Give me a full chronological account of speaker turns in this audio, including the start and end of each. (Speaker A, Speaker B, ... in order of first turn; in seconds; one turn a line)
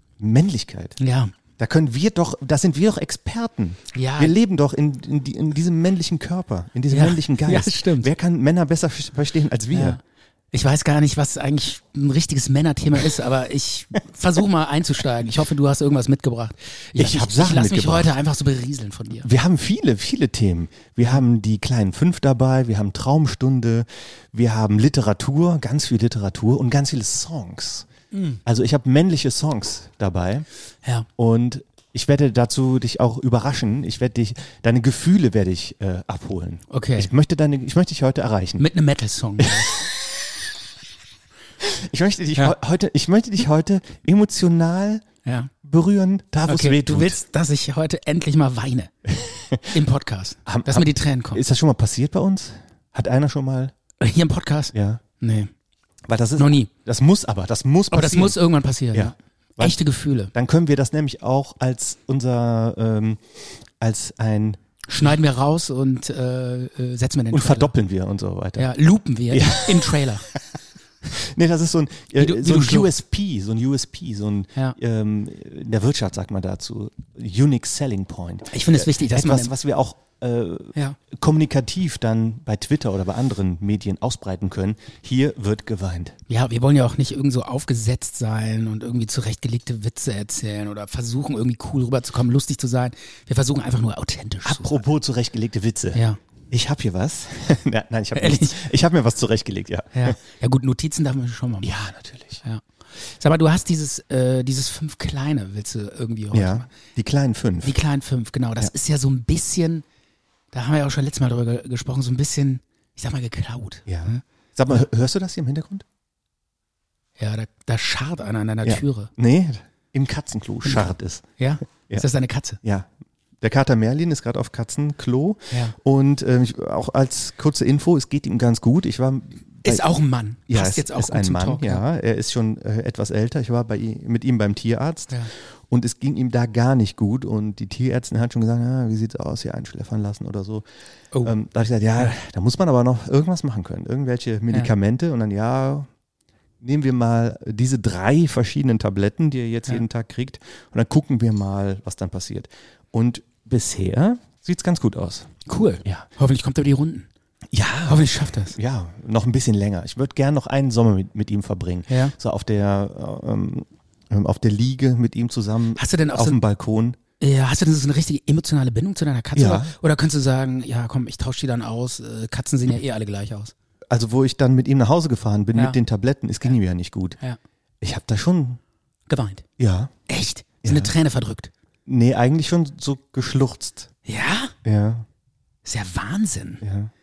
Speaker A: 0.2-1.0
Speaker B: 1.0-1.3
Speaker A: 1.6-10.0
Speaker B: 3.9-4.3
Speaker B: 6.9-8.1
Speaker B: 9.7-10.0
Speaker B: 10.5-19.3
Speaker A: 17.0-18.1
Speaker A: 19.2-27.9
Speaker B: 28.1-28.4
Speaker A: 28.4-30.4
Speaker A: 31.2-38.6
Speaker B: 36.7-37.1
Speaker B: 38.6-39.7
Speaker A: 39.4-39.8
Speaker A: 41.6-45.0
Speaker B: 45.2-45.5
Speaker A: 45.6-47.2
Speaker B: 46.5-48.9
Speaker A: 49.1-49.7
Speaker B: 49.7-51.4
Speaker A: 50.5-53.7
Speaker B: 54.0-55.5
Speaker A: 54.7-55.0
Speaker A: 56.1-58.4
Speaker B: 56.4-56.7
Speaker B: 57.9-60.3
Speaker A: 58.9-59.8
Speaker A: 60.3-65.1
Speaker B: 64.9-67.7
Speaker A: 67.3-68.7
Speaker B: 68.6-70.2
Speaker A: 69.3-70.0
Speaker A: 71.1-86.2
Speaker B: 72.1-72.9
Speaker B: 78.5-79.5
Speaker B: 86.3-94.8
Speaker A: 94.4-100.2
Speaker B: 95.9-96.2
Speaker B: 98.1-98.6
Speaker B: 99.9-101.7
Speaker A: 101.6-102.4
Speaker B: 102.4-106.7
Speaker A: 106.3-107.8
Speaker B: 107.6-109.8
Speaker B: 110.5-114.8
Speaker A: 113.9-115.8
Speaker B: 117.2-119.1
Speaker A: 118.6-121.2
Speaker B: 120.6-122.6
Speaker A: 122.6-122.9
Speaker A: 123.4-129.9
Speaker B: 129.6-131.8
Speaker A: 130.5-135.2
Speaker A: 135.7-140.6
Speaker A: 141.2-145.9
Speaker A: 146.6-155.3
Speaker B: 155.5-157.1
Speaker A: 157.5-167.0
Speaker B: 157.9-158.6
Speaker B: 161.9-162.1
Speaker B: 165.8-166.4
Speaker B: 167.2-173.5
Speaker A: 169.3-169.7
Speaker A: 173.9-177.2
Speaker A: 177.8-178.6
Speaker B: 179.1-179.4
Speaker A: 179.6-179.9
Speaker B: 180.1-181.5
Speaker A: 180.6-180.9
Speaker A: 181.8-183.9
Speaker B: 184.1-184.5
Speaker A: 184.6-185.1
Speaker B: 185.6-186.6
Speaker A: 186.6-186.9